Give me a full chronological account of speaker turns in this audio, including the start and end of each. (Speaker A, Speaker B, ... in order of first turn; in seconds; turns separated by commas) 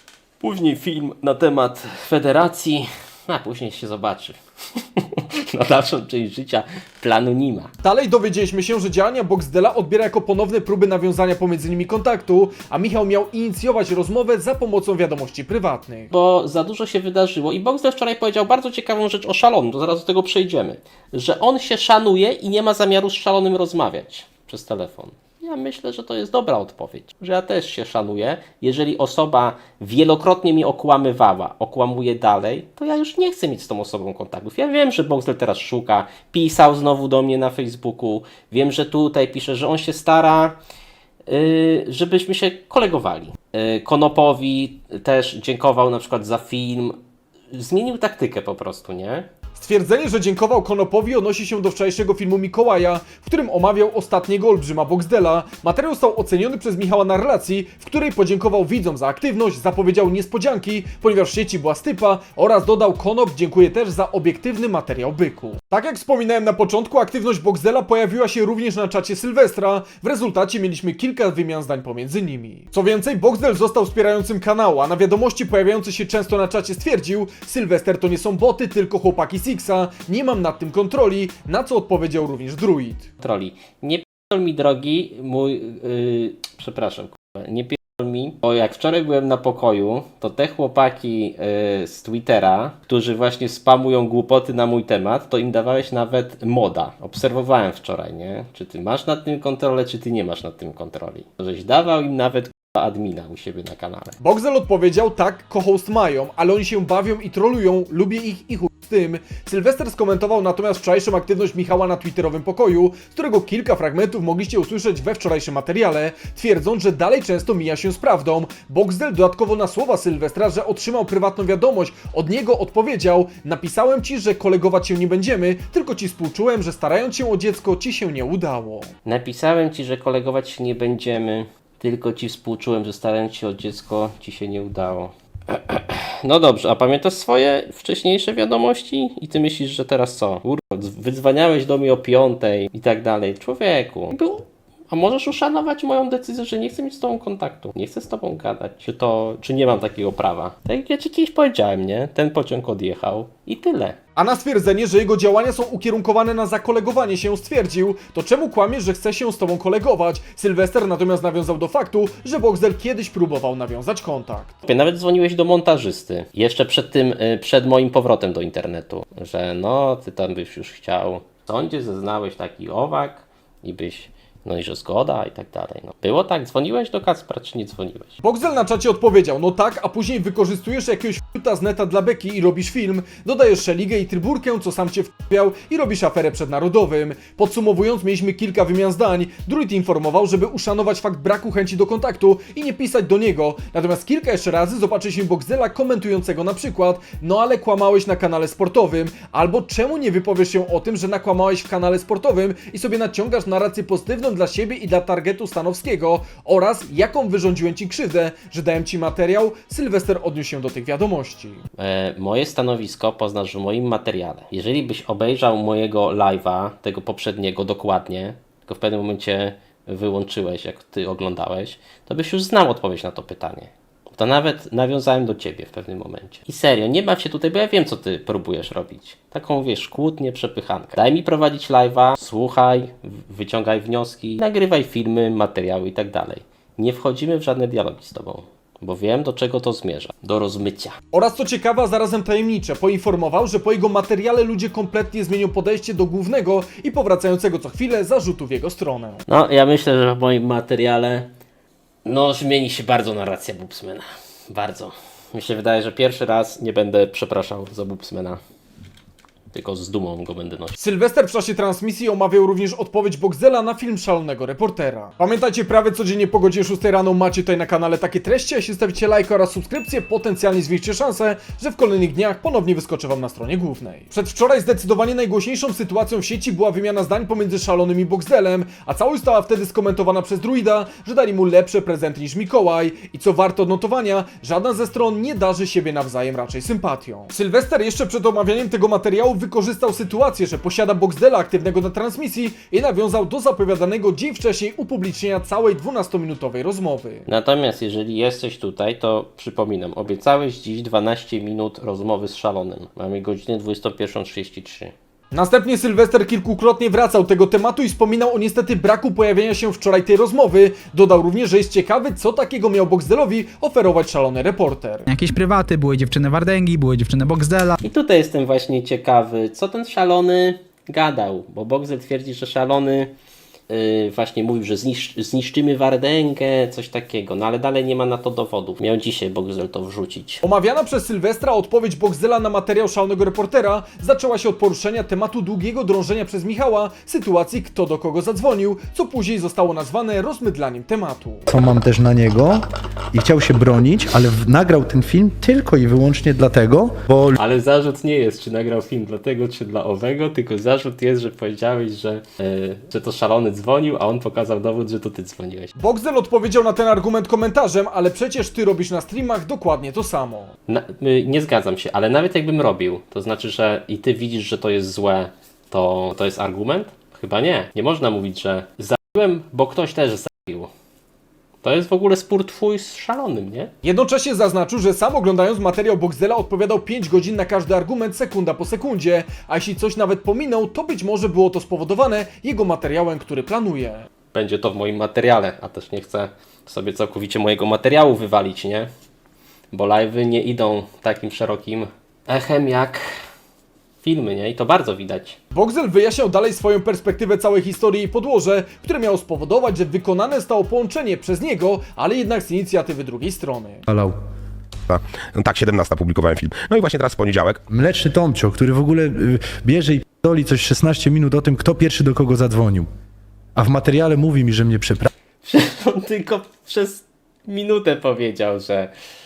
Speaker A: 0.4-7.7, Speaker B: 7.8-16.1, Speaker A: 16.1-40.6, Speaker A: 41.3-47.0, Speaker A: 47.5-49.3, Speaker B: 49.5-83.1, Speaker A: 83.2-104.2, Speaker B: 104.2-128.9, Speaker A: 129.0-154.0, Speaker B: 154.2-164.6, Speaker A: 164.7-178.2, Speaker B: 178.2-211.6, Speaker A: 211.8-241.0, Speaker B: 241.1-249.2, Speaker A: 249.3-251.3, Speaker A: 252.0-258.4, Speaker A: 259.5-260.8, Speaker B: 260.8-297.2, Speaker A: 297.3-304.9, Speaker B: 305.3-315.1, Speaker C: 315.1-317.8, Speaker A: 317.8-323.1, Speaker A: 323.7-330.4, Speaker B: 330.4-341.5, Speaker D: 341.5-347.4, Speaker A: 347.4-355.7, Speaker B: 355.8-360.5, Speaker A: 360.7-370.7, Speaker A: 371.6-373.7, Speaker B: 373.8-384.1, Speaker A: 384.3-388.9, Speaker A: 389.7-393.1, Speaker A: 394.0-395.4, Speaker B: 395.5-403.9, Speaker D: 403.9-404.1, Speaker E: 404.9-407.6, Speaker D: 407.7-412.9, Speaker D: 413.6-415.1, Speaker A: 415.4-418.9